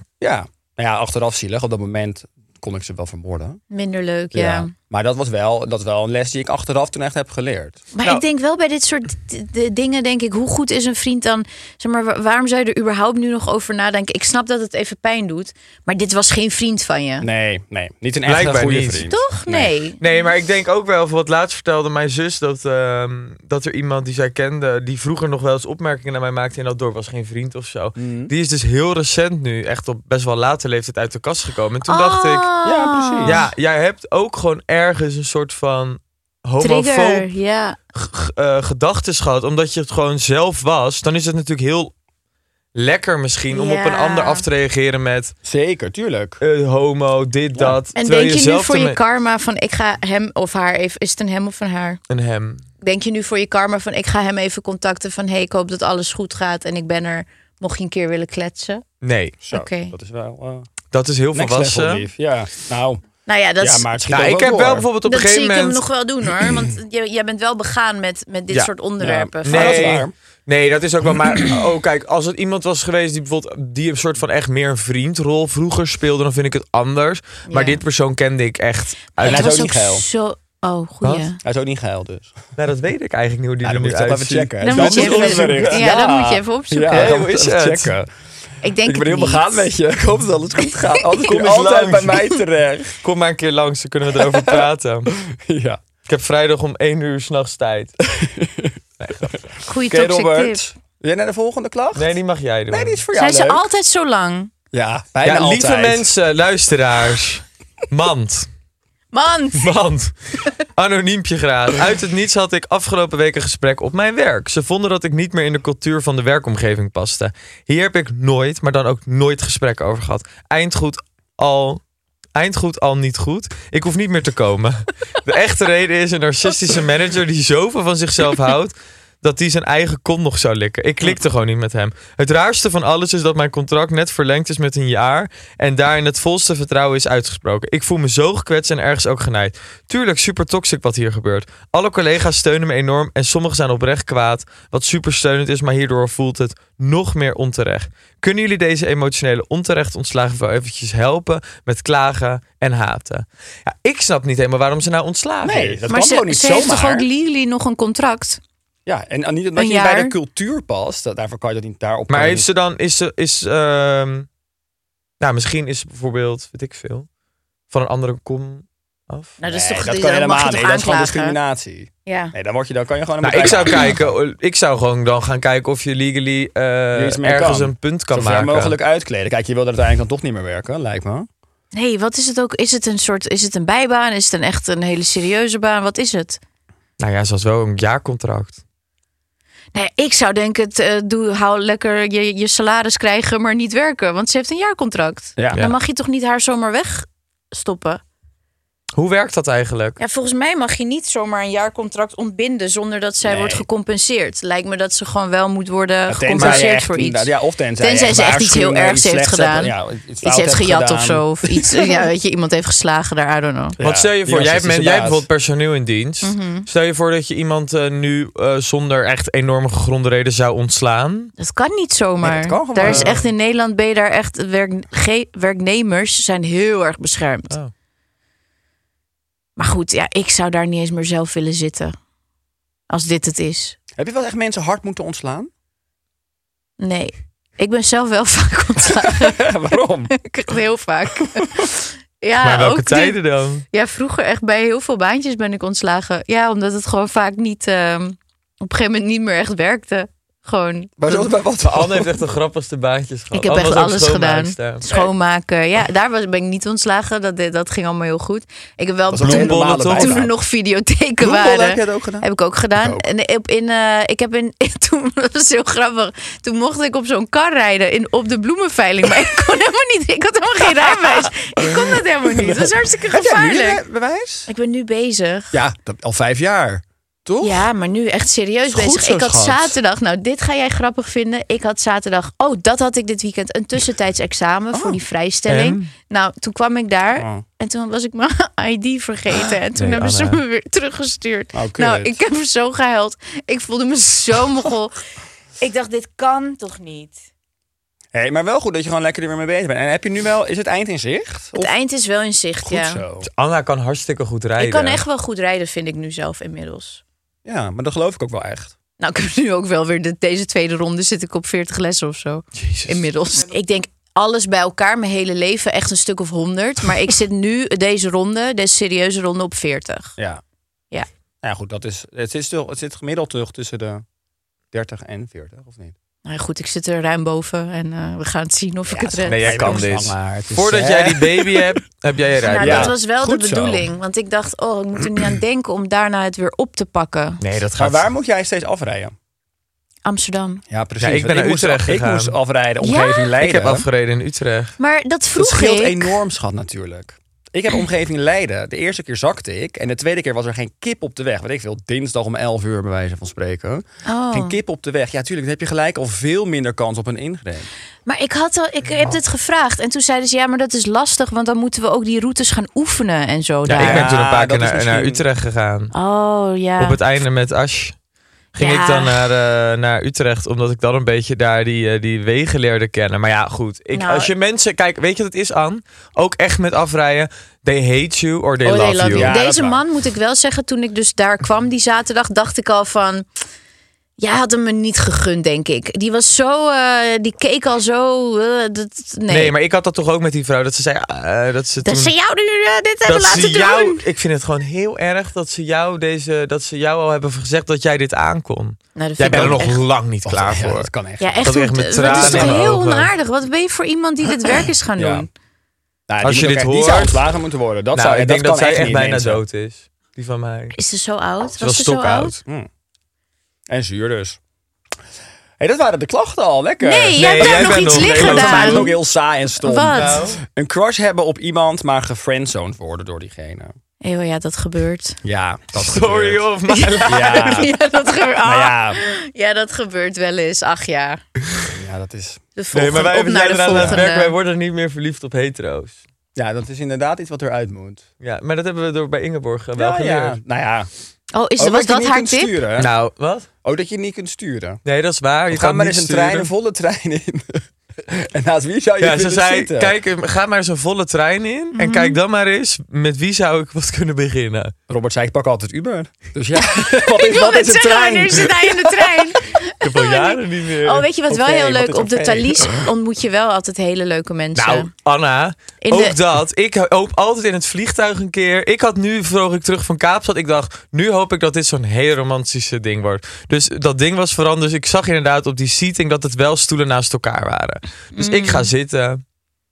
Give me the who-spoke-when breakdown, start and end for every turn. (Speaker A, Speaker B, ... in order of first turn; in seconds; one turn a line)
Speaker A: 0.2-3.6
Speaker B: 3.7-4.7
Speaker A: 4.3-7.8
Speaker B: 7.9-17.2
Speaker A: 17.2-19.7
Speaker C: 18.2-32.5
Speaker B: 19.1-20.0
Speaker A: 28.0-28.3
Speaker B: 31.9-33.4
Speaker A: 32.6-33.4
Speaker C: 33.2-37.3
Speaker B: 36.6-37.8
Speaker C: 37.9-41.9
Speaker C: 42.7-45.3
Speaker B: 43.5-44.4
Speaker A: 45.4-46.4
Speaker C: 46.4-49.0
Speaker B: 48.0-52.0
Speaker C: 52.1-52.6
Speaker B: 52.8-58.8
Speaker C: 59.0-59.4
Speaker A: 59.4-60.7
Speaker B: 59.5-59.9
Speaker C: 60.9-62.0
Speaker A: 61.3-63.0
Speaker B: 63.2-63.9
Speaker A: 63.6-64.9
Speaker C: 64.1-65.8
Speaker B: 65.0-70.0
Speaker A: 69.0-70.1
Speaker C: 69.4-79.6
Speaker B: 77.5-77.8
Speaker B: 79.2-81.4
Speaker A: 79.2-80.0
Speaker A: 81.4-82.3
Speaker C: 82.5-85.9
Speaker A: 83.6-88.1
Speaker B: 84.6-87.2
Speaker C: 86.9-87.9
Speaker B: 88.6-89.7
Speaker A: 88.8-93.0
Speaker C: 91.3-92.3
Speaker C: 93.0-95.1
Speaker A: 94.1-95.8
Speaker C: 96.1-97.9
Speaker A: 98.1-99.3
Speaker C: 99.0-99.5
Speaker B: 99.7-100.6
Speaker A: 99.8-102.2
Speaker C: 101.9-103.0
Speaker A: 102.7-103.6
Speaker B: 103.2-104.5
Speaker A: 104.7-106.0
Speaker C: 105.2-108.5
Speaker B: 109.1-109.7
Speaker C: 109.5-121.8
Speaker C: 122.3-155.8
Speaker A: 155.4-157.1
Speaker B: 155.9-158.4
Speaker A: 158.8-162.5
Speaker B: 159.6-160.1
Speaker C: 162.1-164.3
Speaker C: 165.2-167.1
Speaker C: 167.7-169.4
Speaker B: 169.4-171.4
Speaker A: 169.4-174.0
Speaker B: 172.1-172.3
Speaker C: 173.2-178.8
Speaker A: 176.9-181.3
Speaker B: 181.7-186.4
Speaker C: 187.0-188.6
Speaker B: 189.7-198.0
Speaker A: 195.4-195.6
Speaker C: 198.9-200.0
Speaker B: 200.0-213.8
Speaker A: 203.2-203.6
Speaker A: 206.1-212.0
Speaker C: 206.3-206.7
Speaker A: 213.8-215.2
Speaker C: 213.8-221.3
Speaker B: 216.2-216.7
Speaker B: 221.4-227.5
Speaker A: 222.2-223.2
Speaker C: 222.8-223.2
Speaker B: 229.6-231.9
Speaker B: 232.9-233.8
Speaker A: 233.9-235.5
Speaker B: 236.8-239.5
Speaker A: 239.1-240.1
Speaker B: 240.1-251.3
Speaker C: 242.4-243.6
Speaker A: 251.0-252.2
Speaker C: 251.6-254.9
Speaker B: 253.3-273.8
Speaker A: 259.1-260.3
Speaker C: 259.2-260.2
Speaker A: 261.2-263.1
Speaker A: 270.8-274.5
Speaker B: 274.5-275.6
Speaker A: 275.5-277.7
Speaker B: 277.4-295.0
Speaker A: 278.7-279.8
Speaker A: 284.7-285.0
Speaker C: 285.5-285.9
Speaker A: 287.1-287.4
Speaker C: 289.8-290.4
Speaker A: 291.5-292.2
Speaker B: 295.6-297.2
Speaker A: 298.1-301.7
Speaker B: 301.6-303.0
Speaker A: 302.6-303.3
Speaker C: 303.2-305.0
Speaker B: 304.6-307.0
Speaker A: 307.4-308.7
Speaker B: 309.0-320.1
Speaker C: 312.6-313.0
Speaker A: 320.2-320.4
Speaker A: 321.4-324.0
Speaker A: 324.7-325.9
Speaker B: 326.2-329.8
Speaker A: 328.9-331.7
Speaker C: 329.3-332.9
Speaker B: 332.4-337.4
Speaker A: 332.6-333.9
Speaker C: 337.4-338.0
Speaker A: 337.8-339.1
Speaker B: 340.0-340.6
Speaker A: 340.7-343.9
Speaker C: 341.0-342.4
Speaker B: 342.8-343.3
Speaker C: 343.4-344.7
Speaker B: 344.8-346.1
Speaker A: 345.3-357.7
Speaker B: 354.1-354.6
Speaker B: 358.1-364.1
Speaker C: 363.6-365.9
Speaker A: 363.8-365.2
Speaker B: 365.9-367.0
Speaker C: 366.8-367.9
Speaker C: 368.5-379.3
Speaker B: 368.6-369.2
Speaker B: 373.9-374.3
Speaker B: 378.6-383.2
Speaker A: 379.1-379.8
Speaker B: 384.2-389.5
Speaker C: 389.3-392.1
Speaker B: 391.8-394.0
Speaker C: 393.0-403.1
Speaker B: 398.9-399.8
Speaker A: 399.3-399.7
Speaker A: 400.2-402.7
Speaker B: 401.2-405.3
Speaker A: 405.0-405.3
Speaker A: 406.1-409.4
Speaker C: 406.2-407.2
Speaker C: 407.9-410.8
Speaker B: 410.7-412.4
Speaker C: 411.6-412.4
Speaker A: 413.7-414.4
Speaker A: 415.6-423.7
Speaker B: 416.8-418.9
Speaker C: 417.1-418.9
Speaker B: 419.6-420.2
Speaker C: 419.9-420.4
Speaker B: 424.0-425.2
Speaker A: 425.2-426.4
Speaker C: 425.8-427.7
Speaker B: 426.7-431.2
Speaker A: 427.0-427.7
Speaker A: 428.4-429.0
Speaker A: 431.7-432.4
Speaker B: 432.6-434.3
Speaker C: 432.7-436.0
Speaker A: 433.7-434.0
Speaker A: 436.3-438.1
Speaker C: 438.2-440.4
Speaker A: 439.8-440.9
Speaker B: 441.3-442.6
Speaker A: 441.6-442.9
Speaker C: 442.8-443.5
Speaker A: 443.6-444.8
Speaker C: 444.8-446.5
Speaker A: 445.5-449.9
Speaker C: 449.0-454.7
Speaker B: 451.8-452.2
Speaker A: 454.9-459.4
Speaker B: 456.6-464.9
Speaker C: 459.8-461.1
Speaker A: 461.3-462.9
Speaker C: 464.6-479.2
Speaker B: 465.8-466.2
Speaker B: 478.1-478.7